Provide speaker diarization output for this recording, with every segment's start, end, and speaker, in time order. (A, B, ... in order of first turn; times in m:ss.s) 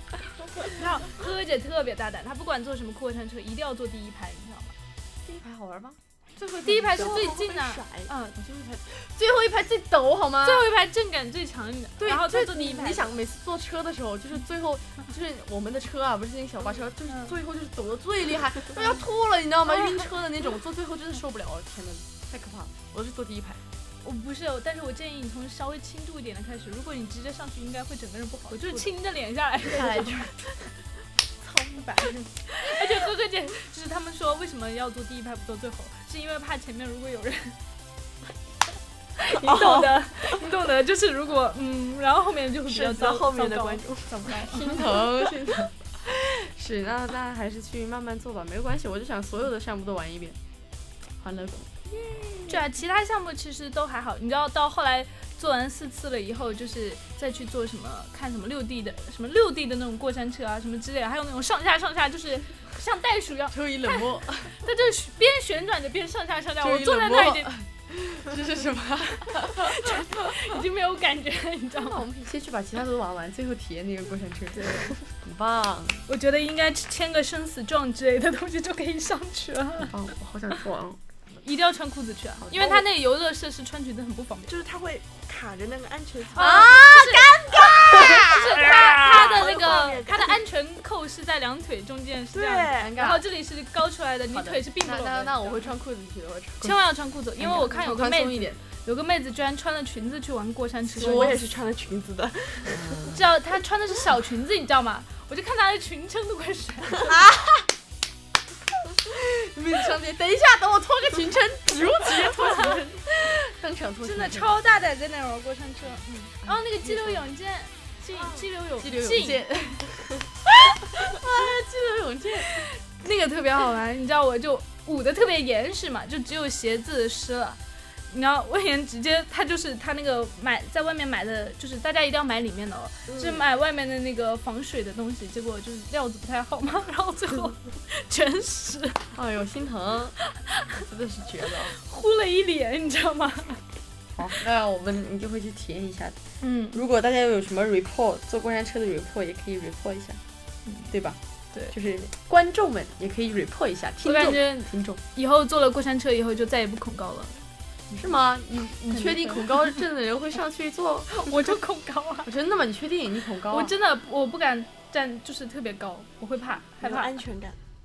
0:00.6-0:04.7 A
0:05.3-0:07.3 B
0:06.4-0:08.4 A
0:06.9-0:08.1 C
0:08.4-0:10.7 B
0:10.4-0:13.1 A
0:12.0-0:23.6 B
0:19.7-0:20.0 A
0:24.0-0:30.2 A
0:29.7-0:30.4 B
0:31.4-0:32.3 C
0:32.5-0:37.6 A
0:39.2-0:44.8 A
0:39.3-0:40.1 C
0:42.6-0:45.1 C
0:44.5-0:45.7 B
0:46.4-0:50.4 B
0:51.2-0:52.0 B
0:52.5-1:04.0 A
1:03.5-1:04.6 B
1:04.6-1:07.5 A
1:06.6-1:10.4 B
1:09.4-1:12.0 A
1:11.8-1:16.0 B
1:14.7-1:15.0 C
1:16.1-1:19.9 A
1:19.9-1:21.0 B
1:21.4-1:24.6 A
1:22.4-1:22.8 B
1:24.5-1:26.8 C
1:26.3-1:27.3 A
1:26.4-1:29.5 B
1:27.6-1:28.2 C
1:27.9-1:35.7 A
1:29.2-1:30.4 C
1:32.3-1:32.9 C
1:32.8-1:33.2 B
1:34.3-1:36.8 B
1:36.6-1:41.4 A
1:37.4-1:38.6 B
1:40.9-1:43.0 C
1:41.0-1:41.4 B
1:42.7-1:43.2 B
1:43.1-1:47.1 A
1:47.0-1:47.7 B
1:48.9-1:54.6 B
1:52.5-1:53.4 A
1:54.0-1:59.4 A
1:56.4-1:57.2 B
1:58.8-1:59.8 B
2:00.4-2:02.5 B
2:02.4-2:19.1 A
2:13.1-2:13.4 C
2:19.1-2:20.2 B
2:20.4-2:20.8 A
2:20.8-2:21.8 B
2:21.7-2:23.6 A
2:24.2-2:26.2 B
2:26.4-2:26.8 A
2:26.7-2:30.2 B
2:30.6-2:30.9 A
2:30.9-2:31.2 B
2:31.7-2:35.0 B
2:34.0-2:37.4 A
2:37.9-2:41.6 B
2:38.9-2:39.8 A
2:41.1-2:42.3 A
2:42.2-2:43.7 B
2:43.5-2:47.2 A
2:46.8-2:47.6 C